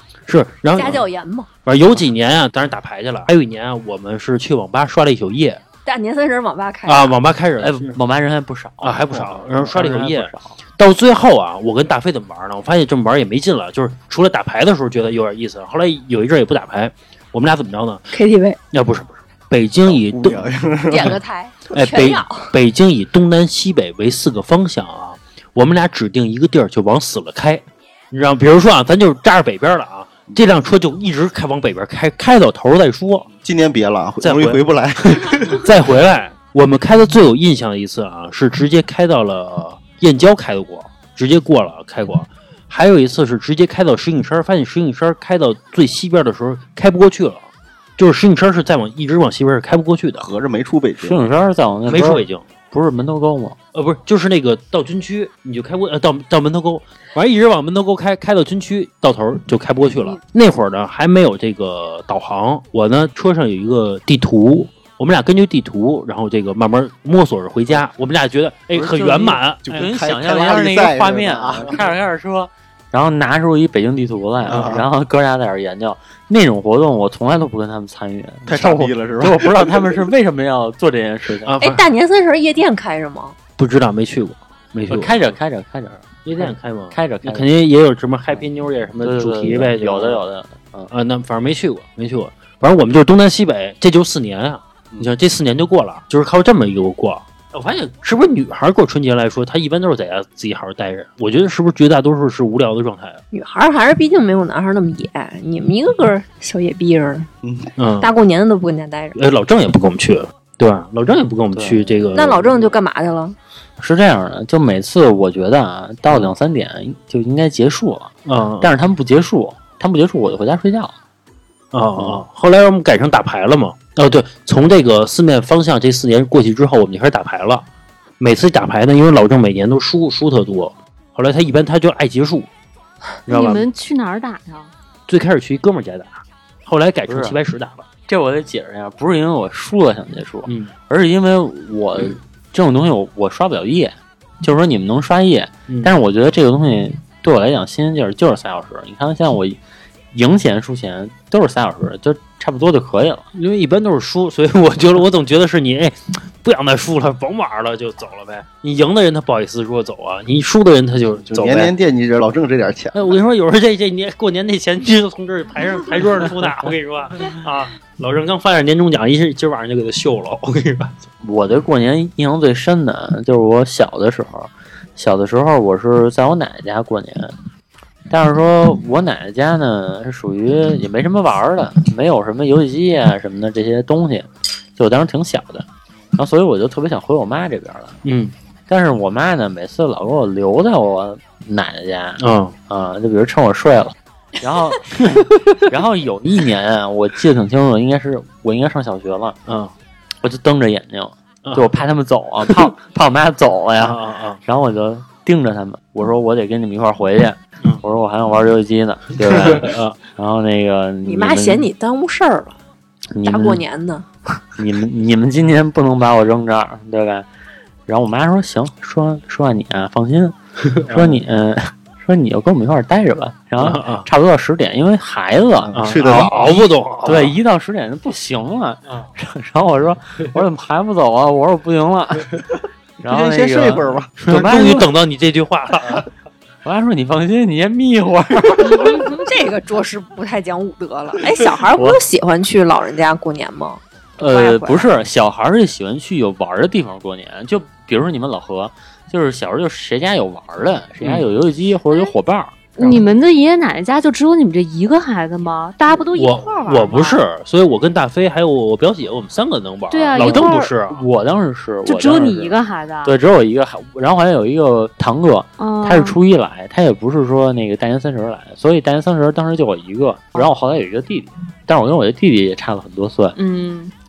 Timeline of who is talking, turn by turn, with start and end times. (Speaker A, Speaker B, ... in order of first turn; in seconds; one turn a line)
Speaker A: 0.3-1.0
Speaker B: 0.7-1.5
Speaker A: 1.7-5.6
Speaker B: 5.9-7.2
Speaker A: 6.9-8.0
Speaker C: 7.6-10.6
Speaker A: 8.8-18.1
Speaker B: 18.1-18.6
Speaker A: 18.7-20.5
Speaker D: 19.9-21.2
Speaker B: 20.9-22.5
Speaker A: 21.7-33.3
Speaker D: 33.3-35.7
Speaker A: 34.2-47.5
Speaker A: 48.0-50.3
Speaker D: 50.2-51.2
Speaker C: 51.0-53.6
Speaker A: 51.9-52.4
Speaker A: 53.7-69.6
Speaker C: 68.7-81.5
Speaker D: 69.6-71.8
Speaker D: 74.4-74.8
Speaker A: 74.5-74.8
Speaker D: 78.5-79.8
Speaker A: 81.5-81.8
Speaker B: 81.6-83.3
Speaker A: 83.6-85.2
Speaker C: 84.9-87.5
Speaker A: 86.2-90.2
Speaker C: 89.0-90.9
Speaker A: 90.9-103.2
Speaker B: 103.3-107.3
Speaker D: 107.4-107.7
Speaker A: 107.8-108.1
Speaker B: 108.0-109.2
Speaker A: 109.1-112.3
Speaker C: 111.5-112.7
Speaker B: 112.1-113.4
Speaker C: 113.8-120.9
Speaker A: 118.3-118.7
Speaker A: 121.7-127.7
Speaker A: 128.2-132.5
Speaker A: 133.3-133.7
Speaker E: 133.3-134.7
Speaker A: 135.1-137.8
Speaker C: 137.1-137.4
Speaker C: 138.1-149.6
Speaker A: 140.5-140.7
Speaker C: 150.1-153.3
Speaker A: 153.3-161.7
Speaker D: 161.2-163.0
Speaker A: 162.9-170.9
Speaker C: 171.2-177.3
Speaker C: 178.1-188.0
Speaker A: 188.1-188.3
Speaker C: 188.7-199.4
Speaker A: 192.2-192.6
Speaker A: 199.5-199.7
Speaker C: 200.2-211.7
Speaker A: 201.4-201.7
Speaker A: 202.5-202.7
Speaker A: 203.8-204.4
Speaker A: 209.2-210.0
Speaker B: 211.1-212.6
Speaker C: 213.1-213.6
Speaker B: 213.2-214.1
Speaker C: 214.6-217.3
Speaker C: 217.9-232.5
Speaker A: 220.7-221.2
Speaker A: 223.6-224.1
Speaker D: 225.7-226.6
Speaker A: 225.8-227.4
Speaker C: 233.0-234.9
Speaker D: 233.1-234.1
Speaker A: 234.3-236.1
Speaker C: 236.6-239.1
Speaker B: 238.6-244.9
Speaker C: 241.7-242.0
Speaker C: 244.2-253.0
Speaker A: 251.0-251.3
Speaker E: 252.8-257.2
Speaker A: 256.1-261.0
Speaker E: 259.9-260.7
Speaker C: 260.1-273.4
Speaker E: 261.9-263.1
Speaker E: 265.6-266.2
Speaker E: 273.4-273.9